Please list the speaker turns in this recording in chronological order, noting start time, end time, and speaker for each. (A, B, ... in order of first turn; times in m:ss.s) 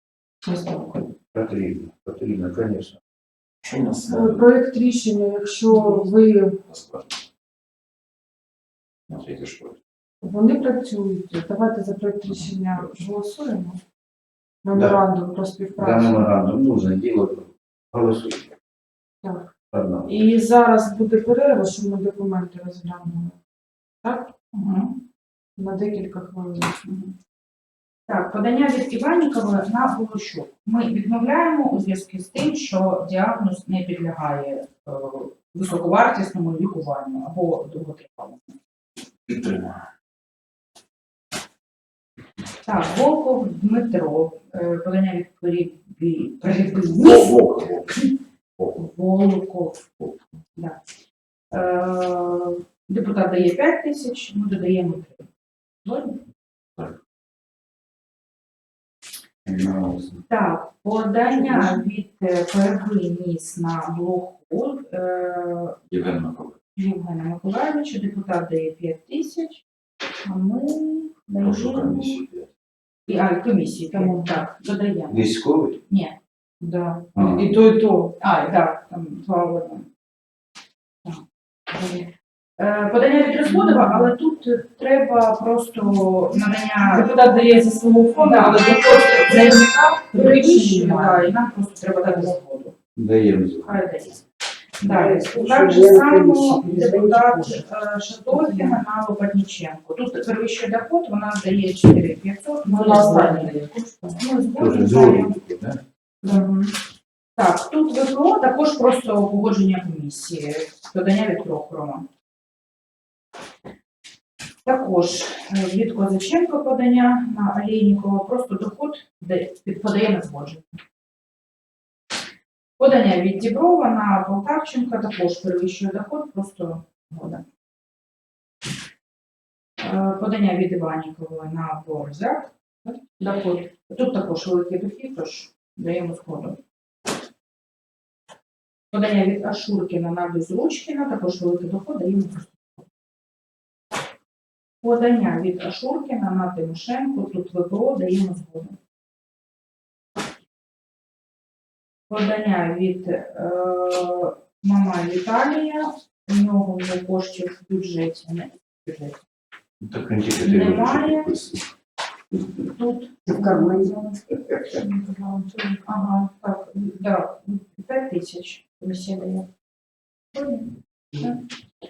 0:00.4-0:01.1 A
0:01.3-0:03.0 B
0:03.6-0:04.4 C
0:04.1-0:06.6 A
0:06.6-0:07.2 C
0:09.1-0:09.8 C
0:10.2-0:13.8 A
0:12.4-0:12.9 C
0:14.6-0:16.3 A
0:14.7-0:15.0 B
0:15.8-0:18.5 B
0:19.2-0:19.5 A
0:19.7-0:20.1 B
0:20.0-0:23.4 A
0:24.0-0:24.4 A
0:24.5-0:24.9 D
0:25.6-0:26.8 A
0:26.8-0:27.1 D
0:28.1-0:38.5 D
0:39.3-0:39.8 C
0:42.6-0:47.4 D
0:46.9-0:47.9 C
0:48.7-0:49.9 D
0:51.5-0:55.3 D
0:55.8-0:56.2 D
0:59.4-1:00.2 B
1:00.3-1:05.8 D
1:01.2-1:01.9 A
1:05.9-1:06.6 C
1:06.8-1:09.6 D
1:10.2-1:12.2 D
1:11.4-1:12.5 C
1:13.1-1:15.3 D
1:13.9-1:14.5 A
1:15.1-1:15.8 B
1:15.9-1:16.2 D
1:16.6-1:18.2 A
1:17.1-1:17.5 B
1:18.2-1:19.9 D
1:21.8-1:22.0 A
1:22.6-1:32.7 D
1:23.4-1:24.1 A
1:26.9-1:31.4 A
1:32.0-1:32.4 A
1:33.0-1:33.9 B
1:33.6-1:34.2 D
1:34.8-1:45.4 D
1:34.8-1:37.6 A
1:38.3-1:38.8 A
1:42.6-1:44.2 A
1:44.6-1:45.8 B
1:46.2-1:46.7 A
1:47.4-1:52.1 D
1:54.6-2:00.8 D
2:02.8-2:07.4 D
2:09.8-2:16.6 D
2:18.9-2:22.8 D
2:24.8-2:28.8 D
2:32.1-2:39.2 D
2:39.8-2:41.6 B
2:40.4-2:41.3 D
2:42.8-2:44.0 D
2:43.3-2:44.2 A
2:44.7-2:45.8 A
2:45.8-2:49.5 D
2:50.4-2:51.4 D